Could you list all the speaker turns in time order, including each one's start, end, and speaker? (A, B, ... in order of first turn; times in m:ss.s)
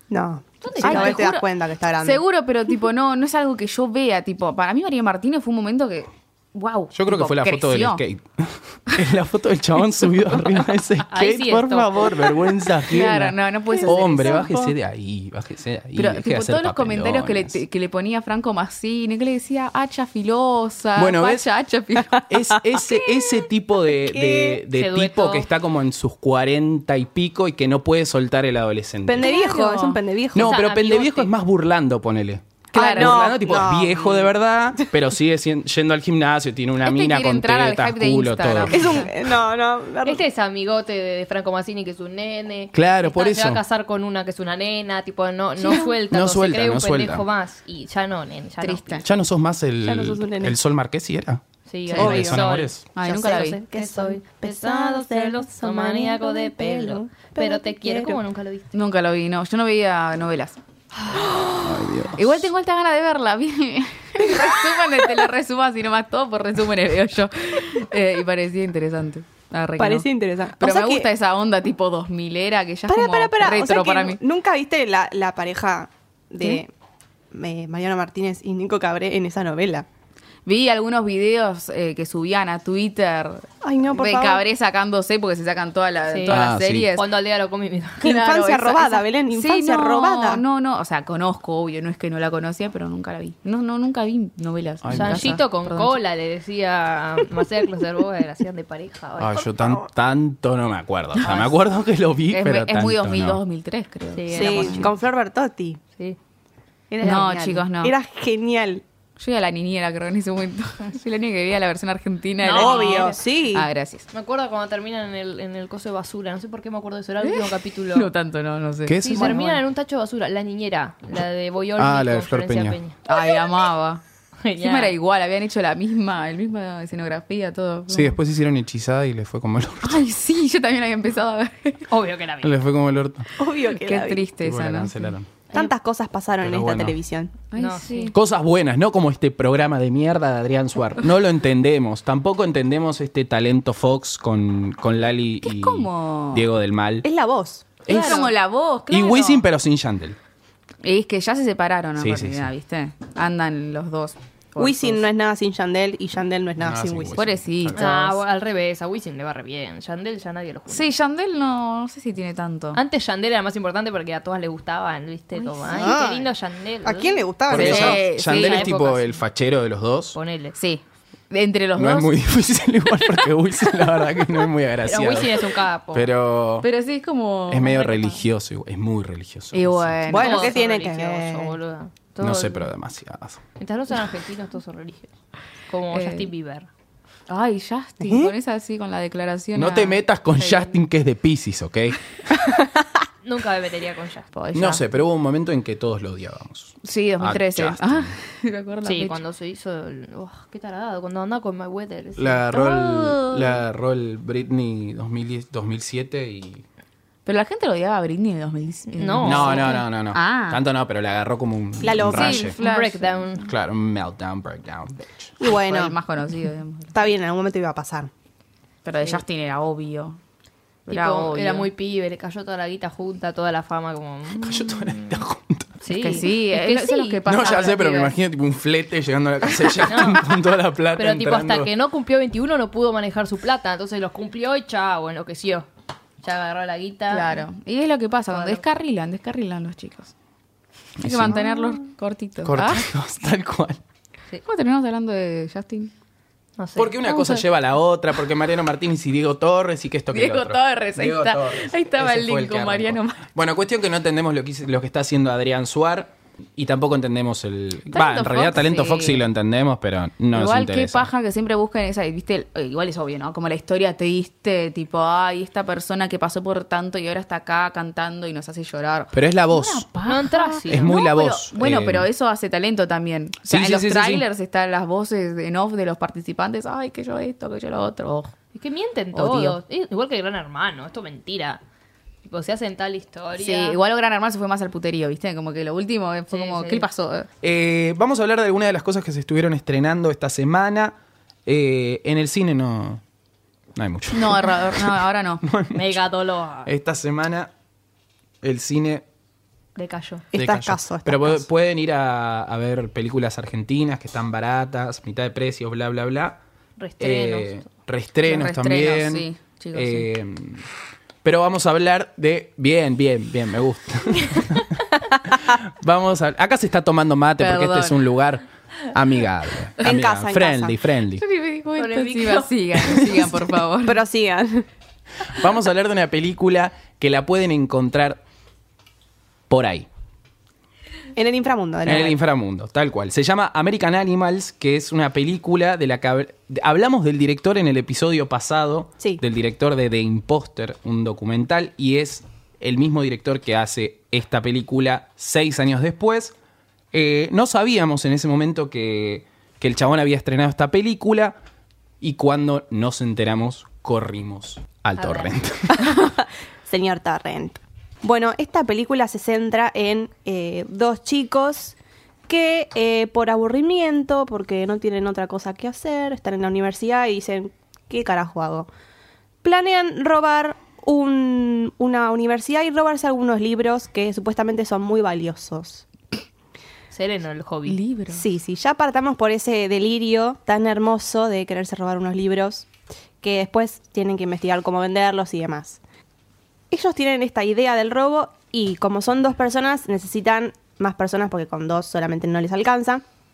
0:00.1-0:02.2 A
0:00.6-0:01.2 B
0:00.8-0:01.5 C
0:02.0-0:08.0 C
0:06.9-0:17.6 D
0:11.1-0:12.4 B
0:12.8-0:14.7 C
0:16.0-0:22.2 C
0:21.0-0:21.4 D
0:22.3-0:29.3 D
0:24.0-0:24.6 A
0:24.7-0:25.5 B
0:29.0-0:30.5 A
0:29.2-0:30.0 C
0:30.3-0:39.0 D
0:30.4-0:31.3 B
0:32.7-0:33.2 C
0:32.7-0:34.3 A
0:36.8-0:39.1 C
0:38.7-0:40.2 A
0:40.0-0:49.0 B
0:42.7-0:43.6 D
0:45.6-0:46.0 C
0:46.1-0:47.2 D
0:48.6-0:49.0 C
0:49.0-0:51.4 D
0:49.8-0:50.6 A
0:51.7-0:58.7 B
0:51.9-0:52.4 A
0:51.9-0:52.8 D
0:52.9-0:53.6 C
0:53.0-0:58.2 A
0:58.7-1:00.6 C
1:01.1-1:14.2 C
1:01.6-1:02.4 D
1:09.8-1:11.1 A
1:12.9-1:16.7 A
1:17.3-1:19.8 A
1:20.4-1:27.1 C
1:23.6-1:24.4 A
1:26.1-1:28.0 B
1:26.3-1:26.9 D
1:28.0-1:30.4 A
1:28.0-1:35.9 C
1:34.8-1:35.4 D
1:34.9-1:39.5 B
1:39.2-1:43.4 D
1:41.2-1:41.5 C
1:42.3-1:44.9 C
1:44.1-1:44.9 B
1:44.3-1:45.8 A
1:46.9-1:48.8 A
1:47.0-1:47.9 C
1:49.2-1:54.0 C
1:52.4-1:53.2 B
1:52.5-1:53.7 A
1:54.1-1:58.1 B
1:57.2-1:59.6 C
1:58.8-1:59.4 D
1:59.0-2:03.0 B
2:01.8-2:02.8 D
2:03.1-2:04.0 C
2:04.4-2:04.9 B
2:04.6-2:08.2 C
2:07.9-2:10.0 D
2:09.8-2:11.9 C
2:11.9-2:12.6 B
2:12.4-2:13.3 D
2:13.4-2:14.2 A
2:13.6-2:15.1 C
2:14.4-2:15.3 D
2:15.5-2:17.3 A
2:16.4-2:17.0 D
2:17.5-2:18.1 C
2:17.5-2:18.1 B
2:18.1-2:27.0 D
2:25.4-2:26.4 C
2:27.0-2:27.7 A
2:27.8-2:28.3 D
2:27.9-2:29.4 C
2:28.0-2:28.2 B
2:28.9-2:30.2 D
2:30.8-2:35.0 C
2:32.0-2:32.5 D
2:34.6-2:37.2 A
2:36.6-2:38.1 D
2:37.1-2:38.2 C
2:37.7-2:40.9 B
2:40.7-2:42.8 C
2:42.7-2:49.2 B
2:45.3-2:46.0 C
2:45.7-2:46.3 A
2:46.8-2:48.0 A
2:47.5-2:50.2 D
2:47.5-2:48.7 C
2:50.1-2:50.6 B
2:50.6-2:52.1 C
2:51.8-2:56.7 D
2:54.8-2:56.1 B
2:56.6-2:58.1 C
2:57.5-3:00.1 D
2:57.6-2:58.1 B
2:59.5-3:00.6 C
3:00.1-3:01.5 A
3:00.1-3:02.7 B
3:02.2-3:03.4 D
3:03.6-3:05.1 B
3:05.7-3:06.7 B
3:05.9-3:06.3 C
3:07.3-3:10.7 C
3:08.0-3:08.3 D
3:09.5-3:12.0 D
3:13.2-3:14.3 B
3:14.3-3:14.8 C
3:14.5-3:18.2 D
3:16.8-3:19.2 C
3:18.8-3:22.6 B
3:22.2-3:26.6 D
3:22.5-3:23.4 C
3:27.2-3:30.6 C
3:29.0-3:29.8 B
3:29.2-3:32.6 D
3:31.8-3:32.5 A
3:32.1-3:33.4 C
3:32.1-3:33.5 B
3:33.4-3:35.3 D
3:35.4-3:36.0 A
3:35.5-3:36.9 C
3:36.9-3:38.1 A
3:38.8-3:40.2 C
3:40.9-3:41.7 C
3:40.9-3:45.2 B
3:44.4-3:45.8 D
3:45.8-3:47.2 B
3:45.9-3:48.1 C
3:47.2-3:51.7 D
3:49.8-3:50.4 B
3:50.9-3:55.7 B
3:56.2-3:57.4 B
3:57.1-4:00.1 C
3:58.3-3:58.6 B
4:01.0-4:01.4 D
4:01.0-4:02.9 C
4:02.4-4:03.8 D
4:04.4-4:05.9 C
4:06.6-4:07.3 B
4:06.8-4:21.1 D
4:07.1-4:07.3 C
4:10.1-4:13.2 C
4:17.9-4:19.2 C
4:20.3-4:38.3 C
4:29.1-4:29.9 D
4:30.0-4:31.0 B
4:30.7-4:32.1 D
4:33.4-4:34.2 D
4:38.5-4:41.6 B
4:39.1-4:39.6 C
4:42.2-4:43.8 B
4:43.4-4:47.3 C
4:46.3-4:46.9 B
4:47.4-4:53.0 D
4:53.7-4:56.0 D
4:54.1-4:55.4 C
4:55.7-4:56.7 B
4:56.6-4:57.5 D
4:58.4-4:59.0 D
4:59.8-5:00.2 B
5:00.3-5:01.4 A
5:00.3-5:06.4 D
5:06.8-5:07.7 B
5:07.0-5:10.7 D
5:08.2-5:10.1 C
5:11.2-5:21.2 D
5:17.4-5:18.0 C
5:19.8-5:20.8 A
5:21.2-5:24.0 C
5:21.8-5:23.2 B
5:23.8-5:24.6 A
5:25.2-5:28.2 D
5:29.5-5:29.9 D
5:31.1-5:32.2 A
5:31.8-5:46.3 D
5:46.9-5:51.4 D
5:52.0-5:55.9 D
5:55.0-5:55.3 B
5:55.8-6:01.8 A
6:02.3-6:08.7 A
6:09.4-6:15.8 A
6:16.9-6:17.8 B
6:17.6-6:18.2 C
6:18.1-6:22.7 A
6:23.2-6:25.8 A
6:26.7-6:33.0 A